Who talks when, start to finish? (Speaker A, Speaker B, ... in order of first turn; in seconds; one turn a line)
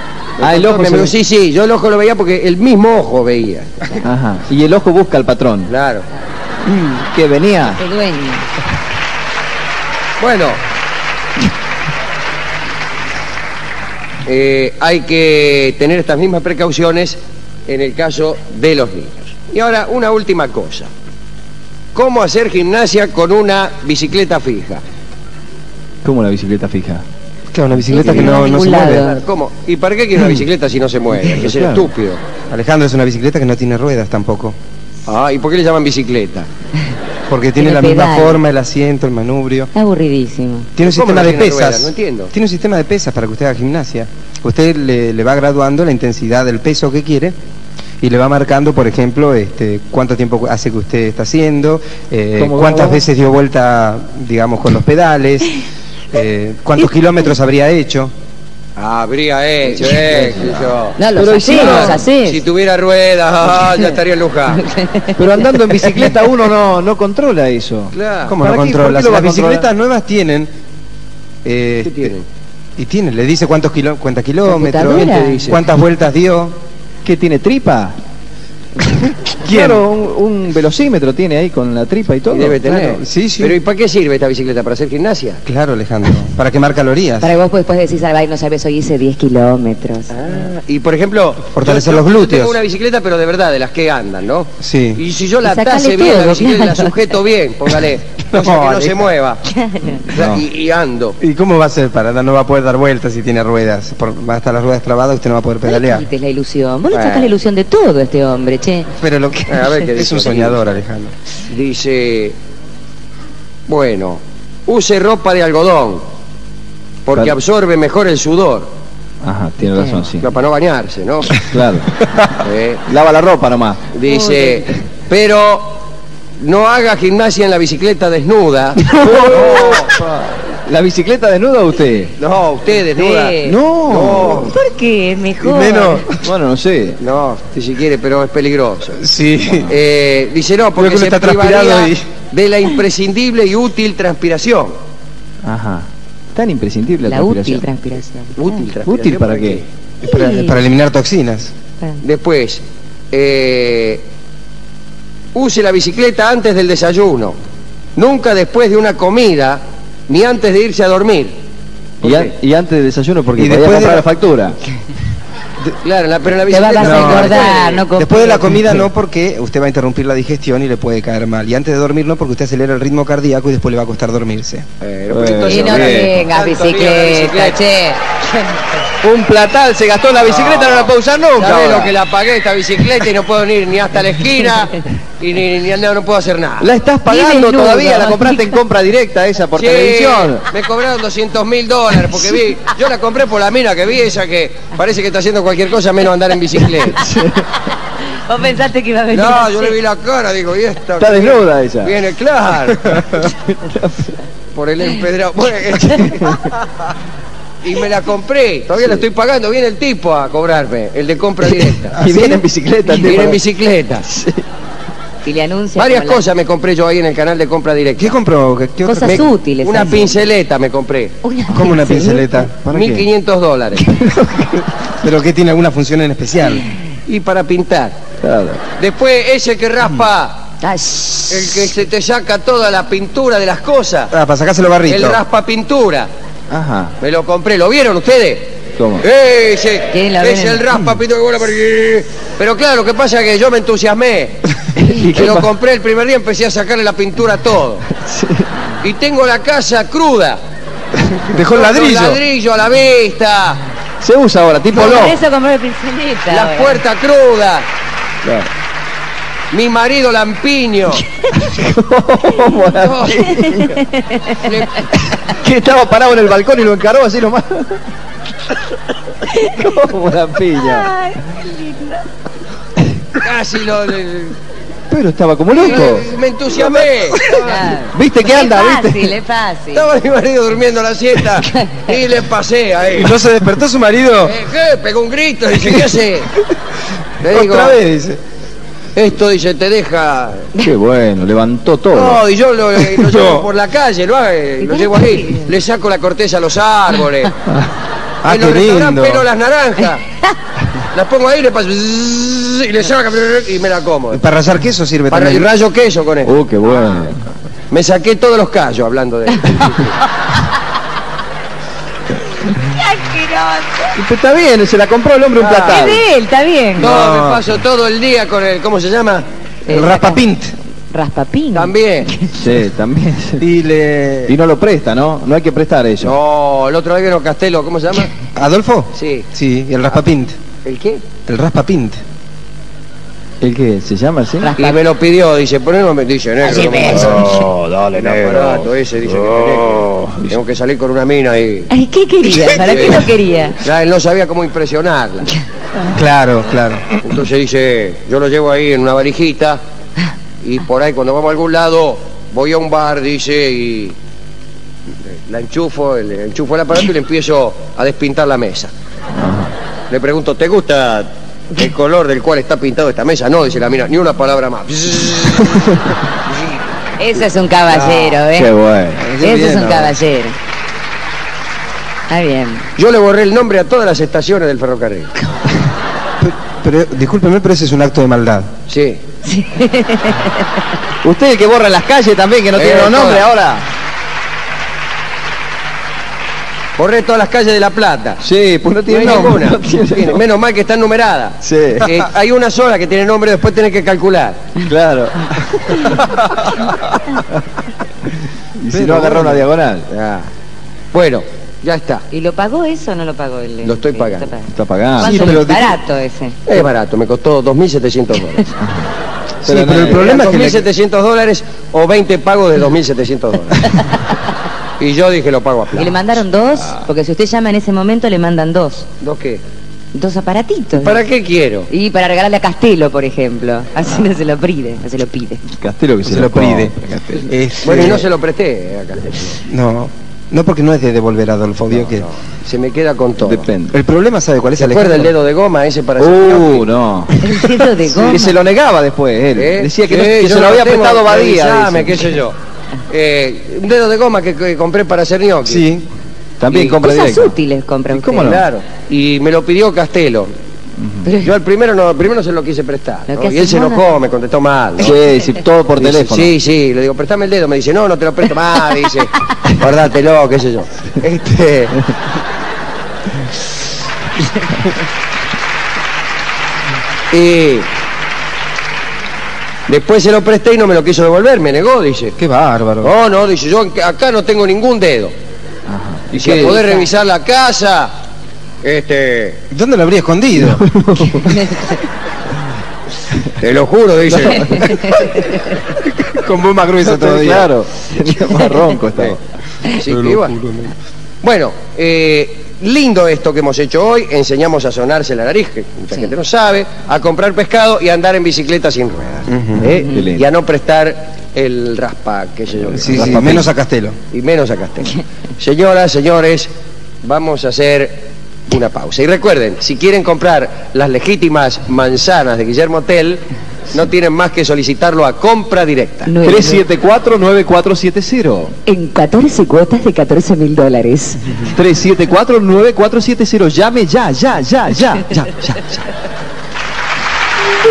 Speaker A: 0.4-3.7
Speaker B: 0.4-1.1
Speaker B: 4.0-5.7
Speaker A: 5.7-6.0
Speaker C: 6.7-7.1
Speaker B: 7.1-7.8
Speaker D: 7.8-8.5
Speaker A: 10.2-10.6
Speaker A: 14.2-20.9
Speaker A: 21.9-24.8
Speaker B: 26.0-27.0
Speaker C: 27.5-29.1
Speaker D: 27.9-29.2
Speaker A: 28.1-32.2
Speaker B: 31.3-31.9
Speaker C: 32.5-34.5
Speaker A: 35.1-36.5
Speaker C: 37.3-39.7
Speaker D: 37.6-38.4
Speaker D: 39.7-40.7
Speaker C: 40.8-47.4
Speaker A: 40.8-42.3
Speaker C: 48.0-58.1
Speaker B: 52.3-53.0
Speaker A: 58.8-64.6
Speaker B: 59.8-62.0
Speaker D: 61.0-62.4
Speaker D: 64.5-66.1
Speaker B: 65.2-69.7
Speaker A: 67.9-68.3
Speaker C: 68.3-70.5
Speaker C: 71.4-72.2
Speaker A: 71.8-72.2
Speaker C: 72.8-76.6
Speaker D: 74.4-75.5
Speaker A: 74.8-75.6
Speaker B: 77.0-77.9
Speaker C: 78.8-79.8
Speaker B: 79.4-82.6
Speaker A: 82.3-85.4
Speaker C: 82.7-83.6
Speaker C: 85.5-87.3
Speaker D: 87.2-90.2
Speaker A: 90.1-99.4
Speaker C: 91.5-92.6
Speaker C: 94.6-95.0
Speaker D: 95.4-97.1
Speaker C: 98.3-99.0
Speaker D: 99.5-100.0
Speaker A: 100.0-101.2
Speaker B: 100.1-100.5
Speaker C: 101.2-106.0
Speaker D: 105.7-108.9
Speaker A: 106.9-107.3
Speaker C: 109.0-111.1
Speaker A: 109.5-110.8
Speaker A: 111.5-112.3
Speaker A: 113.7-116.0
Speaker A: 117.0-118.7
Speaker B: 119.2-120.3
Speaker D: 119.8-120.1
Speaker A: 120.2-121.4
Speaker B: 121.4-121.9
Speaker A: 122.4-122.8
Speaker B: 122.9-123.9
Speaker A: 123.9-125.9
Speaker D: 124.1-124.6
Speaker A: 126.4-129.9
Speaker C: 128.8-129.6
Speaker B: 129.0-132.1
Speaker A: 132.2-134.6
Speaker D: 132.9-133.6
Speaker B: 133.4-134.4
Speaker C: 133.5-134.5
Speaker D: 134.2-136.1
Speaker C: 135.4-136.2
Speaker B: 136.2-137.0
Speaker A: 137.0-139.0
Speaker C: 139.0-139.7
Speaker A: 139.7-144.8
Speaker C: 140.8-142.0
Speaker B: 145.4-147.6
Speaker D: 147.1-148.3
Speaker A: 148.3-149.7
Speaker B: 148.8-149.6
Speaker C: 150.0-151.5
Speaker D: 150.0-150.6
Speaker A: 152.0-154.1
Speaker A: 155.3-157.4
Speaker A: 157.9-161.4
Speaker A: 162.0-162.3
Speaker B: 162.0-164.6
Speaker C: 163.4-164.1
Speaker A: 165.8-167.8
Speaker D: 166.5-168.6
Speaker C: 166.8-174.7
Speaker A: 174.8-177.6
Speaker B: 175.1-176.2
Speaker D: 175.5-178.6
Speaker B: 179.0-181.9
Speaker A: 180.2-186.7
Speaker B: 186.6-190.4
Speaker D: 187.1-188.6
Speaker A: 189.6-197.0
Speaker B: 196.9-197.5
Speaker D: 198.1-199.8
Speaker A: 199.1-203.0
Speaker B: 201.0-201.9
Speaker B: 203.1-204.1
Speaker A: 204.5-206.4
Speaker B: 206.0-206.5
Speaker A: 207.6-212.0
Speaker B: 211.9-213.4
Speaker C: 211.9-212.4
Speaker A: 213.0-214.1
Speaker B: 214.0-214.4
Speaker D: 215.2-216.3
Speaker A: 215.8-218.1
Speaker C: 218.0-219.9
Speaker D: 218.8-220.2
Speaker A: 219.0-221.2
Speaker D: 221.2-222.4
Speaker C: 221.5-223.1
Speaker A: 222.7-224.0
Speaker B: 224.1-224.6
Speaker C: 224.3-226.7
Speaker A: 227.1-227.9
Speaker B: 228.2-228.6
Speaker A: 228.8-230.6
Speaker D: 230.6-231.2
Speaker A: 231.3-234.1
Speaker C: 234.1-235.2
Speaker A: 234.8-236.1
Speaker B: 236.5-236.9
Speaker A: 237.0-244.4
Speaker B: 238.8-239.1
Speaker D: 239.9-240.7
Speaker B: 244.7-245.5
Speaker A: 245.0-247.9
Speaker B: 247.9-248.7
Speaker A: 248.8-250.4
Speaker C: 251.1-252.2
Speaker A: 251.4-253.6
Speaker B: 254.0-255.2
Speaker D: 254.7-256.8
Speaker A: 256.3-257.6
Speaker B: 258.2-258.5
Speaker A: 259.5-261.1
Speaker B: 261.3-263.9
Speaker A: 262.7-263.4
Speaker D: 263.4-264.5
Speaker A: 264.4-264.9
Speaker B: 265.1-267.8
Speaker D: 269.3-269.6
Speaker B: 269.4-270.9
Speaker D: 270.6-272.0
Speaker A: 273.1-274.4
Speaker B: 274.9-276.1
Speaker A: 275.6-277.3
Speaker C: 277.1-277.4
Speaker D: 277.2-279.9
Speaker B: 277.9-279.1
Speaker A: 279.7-283.2
Speaker D: 281.5-281.8
Speaker C: 282.9-284.4
Speaker A: 284.2-286.3
Speaker A: 287.2-287.8
Speaker C: 287.3-288.2
Speaker A: 288.9-290.5
Speaker B: 290.6-292.2
Speaker A: 291.9-297.3
Speaker C: 292.8-293.5
Speaker D: 294.6-295.5
Speaker C: 298.2-299.3
Speaker A: 298.2-300.0
Speaker A: 300.9-304.2
Speaker C: 304.1-305.5
Speaker A: 305.1-306.3
Speaker B: 306.2-307.2
Speaker A: 307.7-309.9
Speaker D: 312.5-314.0
Speaker B: 313.9-316.0
Speaker A: 315.4-316.0
Speaker D: 315.7-316.9
Speaker C: 316.8-317.4
Speaker A: 316.8-319.2
Speaker D: 319.6-320.2
Speaker C: 319.7-320.5
Speaker D: 320.9-322.3
Speaker A: 321.5-322.1
Speaker B: 322.3-323.5
Speaker C: 323.4-324.4
Speaker B: 324.2-326.1
Speaker A: 326.0-328.1
Speaker C: 328.3-330.3
Speaker A: 328.9-329.3
Speaker A: 330.6-331.0
Speaker C: 331.3-332.0
Speaker B: 333.4-334.5
Speaker D: 334.4-334.8
Speaker A: 334.6-341.7
Speaker D: 336.5-337.4
Speaker B: 337.3-338.6
Speaker B: 340.1-340.4
Speaker D: 341.7-343.6
Speaker A: 342.2-345.4
Speaker C: 345.9-346.9
Speaker A: 347.0-349.6
Speaker A: 350.4-353.9
Speaker A: 355.1-358.7
Speaker B: 359.1-359.5
Speaker A: 359.9-366.3
Speaker D: 367.0-368.5
Speaker C: 367.7-368.1
Speaker B: 368.3-369.1
Speaker C: 369.0-370.0
Speaker D: 369.2-370.4
Speaker D: 372.1-372.6
Speaker A: 372.8-375.1
Speaker C: 376.2-378.5
Speaker A: 378.7-379.0
Speaker D: 379.2-380.5
Speaker B: 381.0-383.6
Speaker A: 382.5-383.2
Speaker A: 386.8-388.2
Speaker B: 388.2-390.2
Speaker A: 388.9-394.4
Speaker B: 391.4-392.0
Speaker B: 394.6-396.0
Speaker B: 398.6-399.9
Speaker C: 398.7-399.4
Speaker A: 399.9-400.3
Speaker A: 400.9-402.1
Speaker D: 402.1-406.4
Speaker A: 403.6-404.3
Speaker B: 404.5-405.4
Speaker C: 405.0-405.8
Speaker A: 406.4-408.5
Speaker B: 408.6-408.9
Speaker B: 409.4-410.2
Speaker C: 409.4-410.7
Speaker A: 409.8-413.8
Speaker A: 414.8-416.0
Speaker D: 415.8-418.9
Speaker A: 419.0-419.4
Speaker D: 419.9-421.0
Speaker A: 420.8-421.7
Speaker D: 421.7-425.4
Speaker B: 425.5-427.3
Speaker C: 426.0-428.0
Speaker A: 427.6-429.4
Speaker C: 429.4-432.1
Speaker A: 431.7-433.5
Speaker B: 433.2-433.7
Speaker C: 433.7-435.1
Speaker A: 434.6-436.7
Speaker B: 436.0-437.2
Speaker D: 437.2-438.3
Speaker B: 438.0-442.2
Speaker A: 439.4-442.4
Speaker A: 442.9-445.7
Speaker C: 445.4-445.9
Speaker B: 446.4-447.4
Speaker D: 446.5-448.4
Speaker B: 447.9-448.4
Speaker A: 448.2-450.3
Speaker B: 450.8-451.1
Speaker D: 451.0-451.3
Speaker A: 451.2-455.0
Speaker D: 453.1-453.8
Speaker B: 454.8-456.3
Speaker A: 455.8-461.8
Speaker A: 467.1-467.7
Speaker A: 469.7-472.2
Speaker C: 472.2-472.9
Speaker A: 472.8-475.1
Speaker B: 475.7-476.6
Speaker A: 476.1-477.9
Speaker D: 476.3-476.8
Speaker A: 478.6-479.4
Speaker C: 479.5-481.5
Speaker B: 480.4-481.4
Speaker A: 483.4-484.8
Speaker B: 484.3-484.7
Speaker D: 484.6-485.0
Speaker C: 485.8-487.5
Speaker B: 486.8-489.2
Speaker A: 489.0-490.4
Speaker C: 489.8-490.7
Speaker A: 491.2-503.5
Speaker C: 499.3-499.6
Speaker B: 499.6-500.2
Speaker C: 502.7-504.0
Speaker B: 502.8-503.5
Speaker A: 504.1-506.5
Speaker A: 507.0-516.1
Speaker D: 516.1-516.6
Speaker B: 516.2-518.5
Speaker D: 518.6-521.2
Speaker B: 521.5-525.8